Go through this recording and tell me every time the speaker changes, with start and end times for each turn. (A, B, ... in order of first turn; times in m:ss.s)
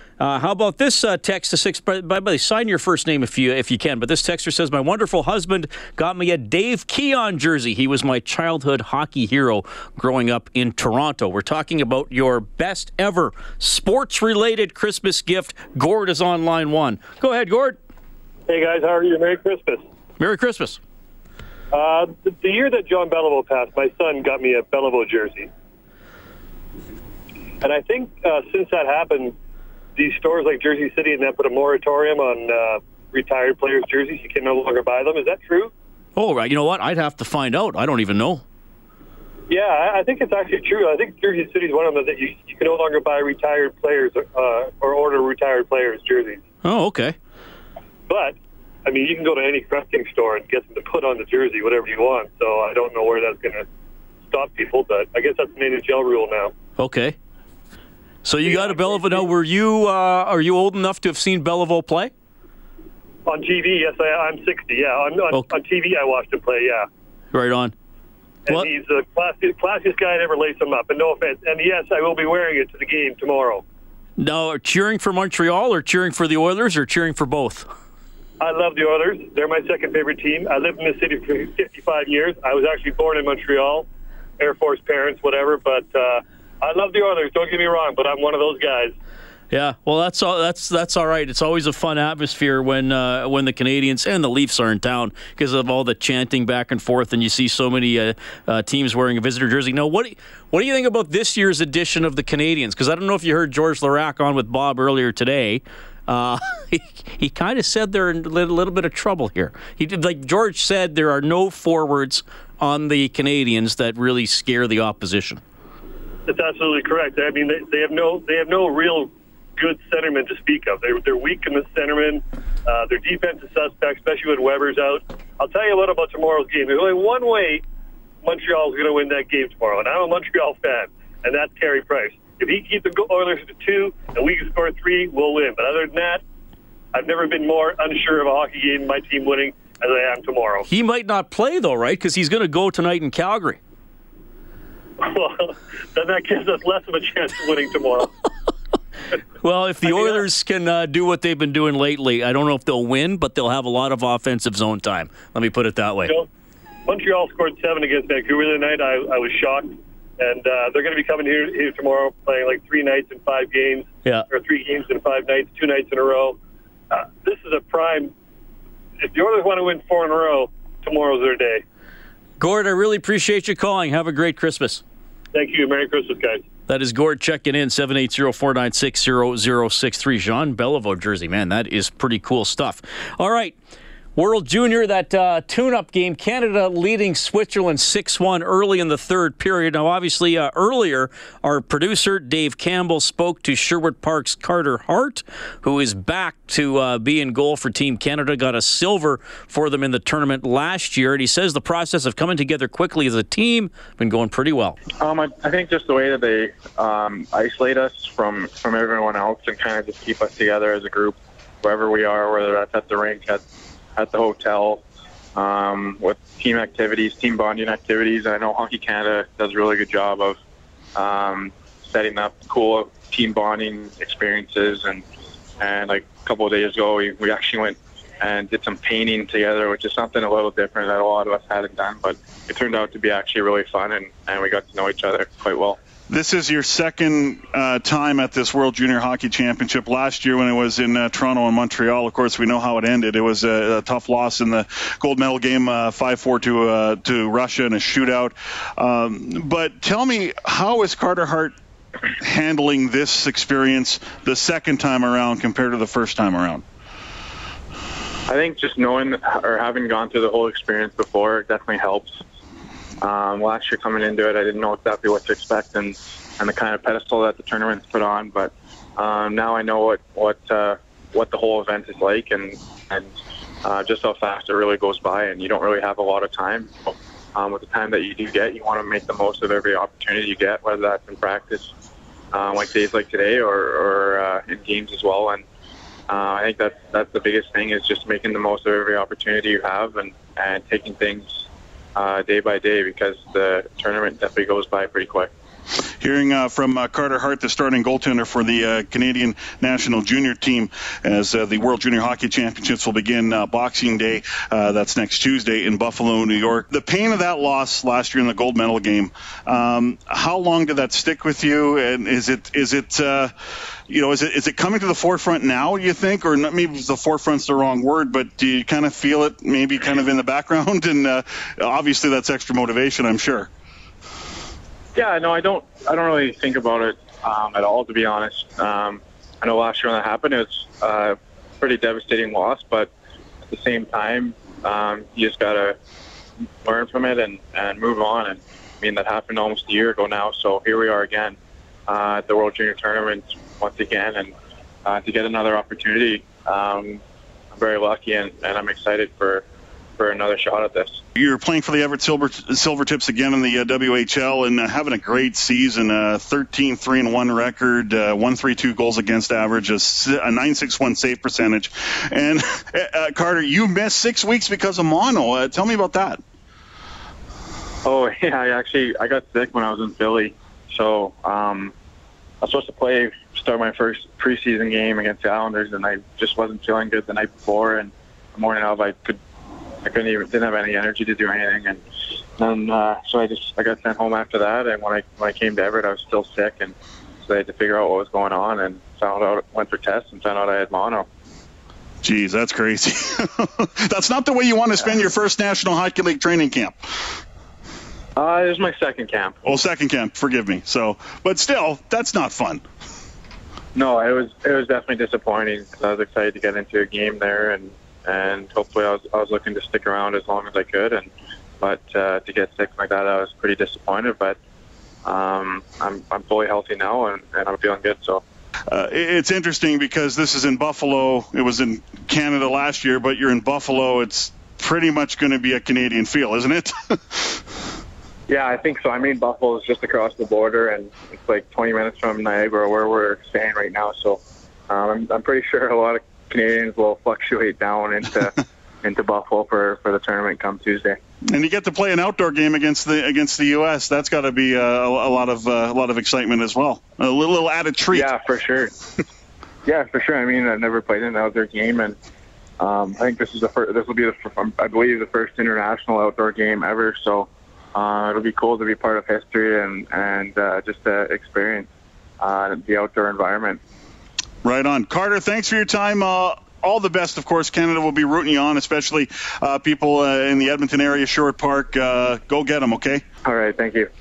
0:00.2-0:17.8 A
0:18.5-0:19.8 B
0:20.2-0:20.8 A
0:21.7-0:25.5 B
0:27.6-0:29.4 B
0:30.0-0:35.7 B
0:36.2-0:38.4 A
0:39.5-0:46.4 B
0:46.6-0:47.2 A
0:48.1-0:53.6 B
0:54.3-0:56.5 B
0:56.8-0:57.2 A
0:58.2-1:02.1 A
0:58.4-0:59.3 B
1:03.2-1:06.9 B
1:07.3-1:07.7 A
1:08.5-1:13.6 B
1:14.2-1:17.7 A
1:18.4-1:23.9 B
1:24.4-1:28.9 B
1:29.5-1:55.4 A
1:56.3-2:07.6 B
2:08.2-2:16.2 B
2:16.9-2:20.6 B
2:20.7-2:23.6 A
2:25.0-2:28.1 B
2:29.4-2:36.1 A
2:29.8-2:30.2 B
2:36.9-2:46.4 B
2:46.9-2:48.1 B
2:49.0-2:51.6 B
2:52.4-2:54.8 A
2:55.3-2:56.4 B
2:56.7-3:03.6 A
3:04.2-3:24.8 A
3:25.0-3:33.4 C
3:34.0-3:34.8 C
3:35.4-3:40.4 C
3:40.9-3:45.0 C
3:45.6-3:55.8 C
3:56.1-4:11.5 D
4:12.2-4:16.6 D
4:18.3-4:22.2 C
4:23.0-4:41.7 C
4:42.3-4:45.4 C
4:46.1-4:55.3 C
4:56.0-5:13.3 D
5:13.9-5:23.5 D
5:25.0-5:32.9 C
5:33.5-5:35.8 C
5:36.6-5:41.4 C
5:41.9-5:44.3 C
5:44.8-5:47.0 C
5:47.5-5:49.4 C
5:50.0-5:51.0 C
5:51.1-6:06.2 D
6:07.8-6:11.7 C
6:12.4-6:19.2 C
6:19.8-6:21.8 C
6:22.4-6:31.1 C
6:32.0-6:36.8 D
6:38.2-6:39.4 C
6:39.4-6:42.6 D
6:43.8-6:54.4 C
6:55.0-6:58.2 C
6:58.7-7:07.2 D
7:08.3-7:21.0 C
7:21.3-7:28.1 D
7:27.9-7:28.8 C
7:29.6-7:32.0 C
7:32.6-7:41.7 C
7:42.2-7:43.6 C
7:44.4-7:53.0 D
7:53.2-7:53.9 C